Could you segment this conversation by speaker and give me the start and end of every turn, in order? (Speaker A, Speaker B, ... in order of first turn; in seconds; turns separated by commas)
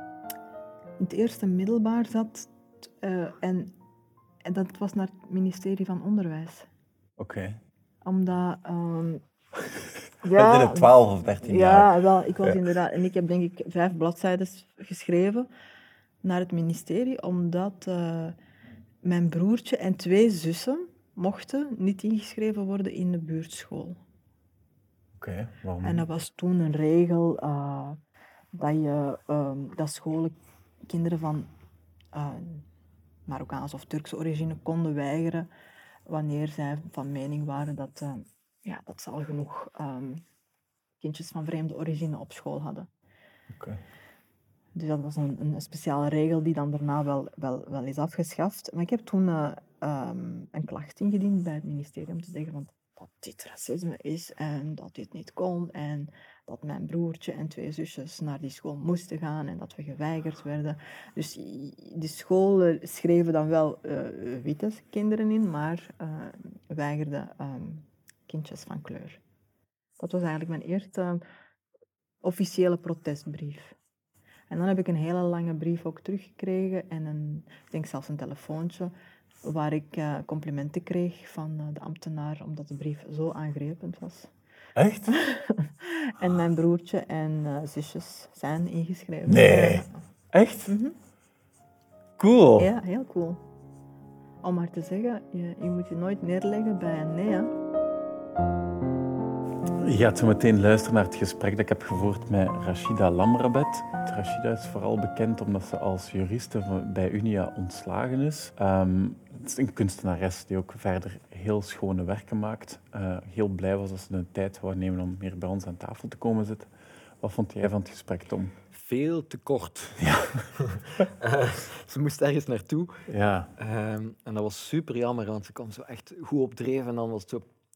Speaker A: 1.0-3.7, Speaker A: 4.4-6.7, Speaker B: 7.2-7.6, Speaker A: 8.0-9.2, Speaker A: 10.2-15.5, Speaker B: 10.3-12.7, Speaker A: 16.2-18.4, Speaker A: 19.0-24.0, Speaker B: 25.2-26.1, Speaker A: 25.8-28.0, Speaker A: 28.5-30.3, Speaker A: 30.9-31.5, Speaker A: 32.1-32.6, Speaker A: 33.3-35.5, Speaker A: 36.1-40.2, Speaker A: 41.0-42.9, Speaker B: 43.5-43.8, Speaker A: 44.7-69.2, Speaker A: 70.0-71.2, Speaker A: 72.2-73.8, Speaker A: 74.5-78.9, Speaker A: 79.4-84.3, Speaker B: 84.8-85.2, Speaker A: 85.1-90.0, Speaker B: 89.3-90.7, Speaker A: 90.7-90.9, Speaker B: 92.2-92.7, Speaker A: 92.6-93.4, Speaker A: 94.4-97.5, Speaker B: 99.8-116.7, Speaker B: 117.2-118.5, Speaker C: 118.7-123.0, Speaker B: 120.0-120.5, Speaker B: 123.1-123.5, Speaker C: 123.6-127.5